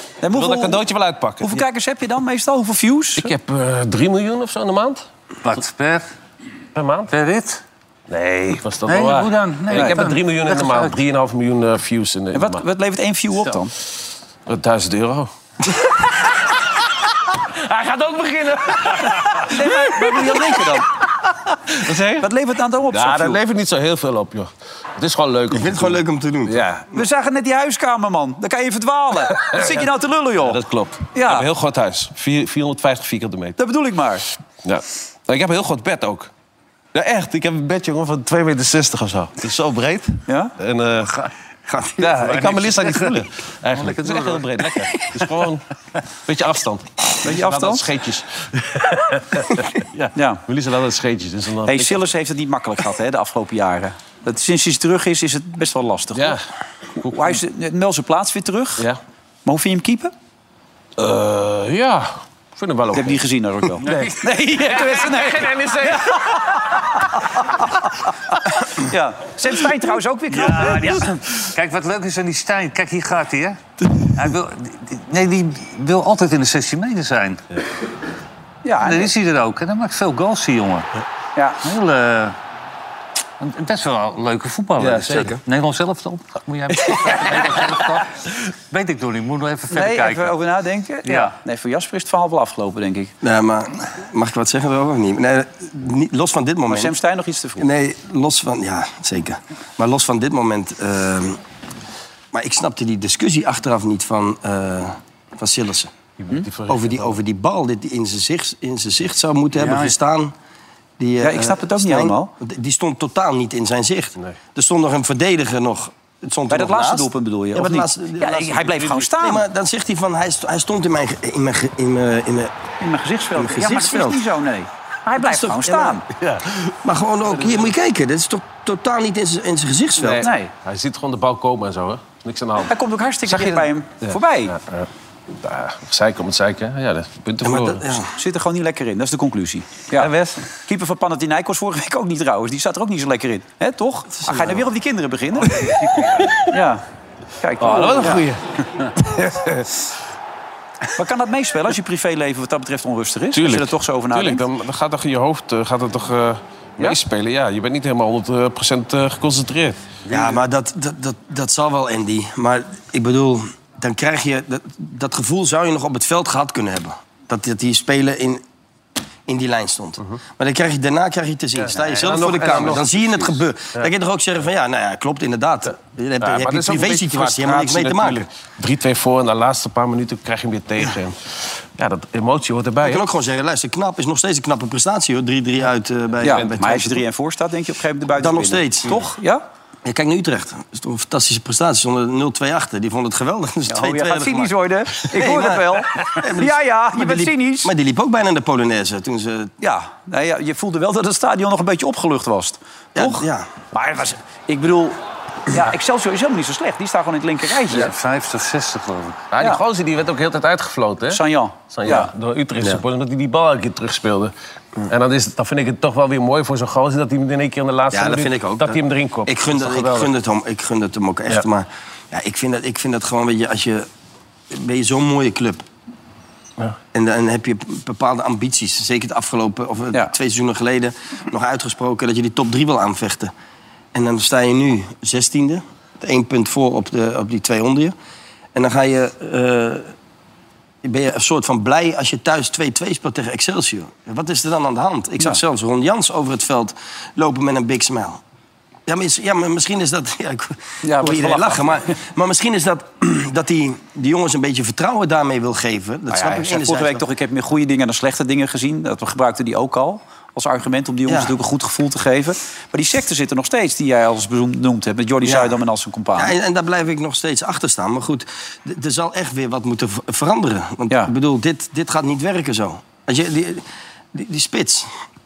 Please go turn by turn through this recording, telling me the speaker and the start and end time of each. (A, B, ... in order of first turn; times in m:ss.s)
0:00.2-0:00.8 A
0:00.3-0:01.6 B
0:01.4-0:03.3 A
0:03.2-0:05.0 B
0:05.4-0:06.1 C
0:06.8-0:07.1 B
0:07.1-0:07.6 C
0:08.1-0:12.6 B
0:08.8-0:11.0 C
0:09.7-0:10.0 A
0:12.3-0:13.7 A
0:14.5-0:15.3 B
0:17.5-0:20.4 B
0:19.3-0:20.9 A
0:21.7-0:22.3 B
0:22.2-0:23.4 A
0:22.9-0:26.8 B
0:25.5-0:26.7 D
0:26.9-0:30.6 A
0:29.4-0:29.9 B
0:30.4-0:33.6 B
0:31.1-0:31.5 A
0:33.6-0:34.3 A
0:34.6-0:36.3 B
0:36.9-0:41.3 B
0:41.7-0:42.3 D
0:42.0-0:45.6 B
0:42.4-0:43.2 C
0:43.8-0:44.4 C
0:46.3-0:52.0 B
0:47.2-0:47.9 A
0:50.2-0:50.4 A
0:51.7-0:56.4 A
0:56.2-0:56.4 B
0:57.0-0:57.4 B
0:57.0-0:58.8 A
0:59.4-1:00.1 A
1:01.0-1:03.2 B
1:02.9-1:11.2 A
1:03.8-1:06.3 B
1:10.3-1:17.5 C
1:18.6-1:19.1 A
1:18.8-1:20.9 C
1:21.6-1:22.4 C
1:23.4-1:30.4 C
1:24.8-1:25.4 B
1:29.7-1:33.1 A
1:31.0-1:31.3 C
1:33.2-1:36.9 D
1:36.7-1:37.7 A
1:37.6-1:41.4 D
1:42.3-1:45.9 D
1:46.2-1:47.2 B
1:46.7-1:50.3 D
1:49.6-1:50.0 C
1:51.0-2:02.5 D
1:51.2-1:52.3 A
1:56.5-1:59.4 A
2:02.8-2:06.0 A
2:03.4-2:04.2 D
2:05.2-2:06.0 D
2:06.2-2:06.7 B
2:06.8-2:10.2 D
2:07.3-2:07.7 B
2:10.0-2:12.7 B
2:10.2-2:10.5 A
2:12.6-2:14.5 A
2:13.3-2:14.9 B
2:15.4-2:17.9 B
2:17.4-2:18.1 D
2:18.2-2:25.8 A
2:20.0-2:20.4 B
2:24.1-2:24.7 D
2:25.6-2:26.4 B
2:26.5-2:26.8 A
2:27.4-2:28.3 A
2:27.6-2:29.7 B
2:31.0-2:34.4 A
2:33.3-2:39.8 B
2:40.1-2:48.4 D
2:49.3-2:58.2 D
2:51.7-2:53.9 B
2:51.9-2:52.7 C
2:56.2-3:01.2 B
3:01.8-3:03.1 B
3:02.8-3:07.0 D
3:06.2-3:09.4 A
3:08.2-3:09.1 D
3:09.8-3:19.5 D
3:13.7-3:17.7 A
3:19.6-3:25.0 A
3:23.0-3:23.5 D
3:25.5-3:27.9 A
3:27.7-3:29.2 C
3:29.3-3:34.3 B
3:31.1-3:32.1 A
3:34.9-3:40.1 B
3:37.9-3:43.9 D
3:44.5-3:45.6 D
3:46.9-3:53.3 D
3:53.9-3:57.9 D
3:58.6-3:59.9 D
4:00.8-4:08.2 D
4:08.9-4:17.0 D
4:10.8-4:11.8 A
4:16.1-4:26.4 A
4:21.1-4:21.3 D
4:25.2-4:25.6 D
4:26.2-4:34.9 D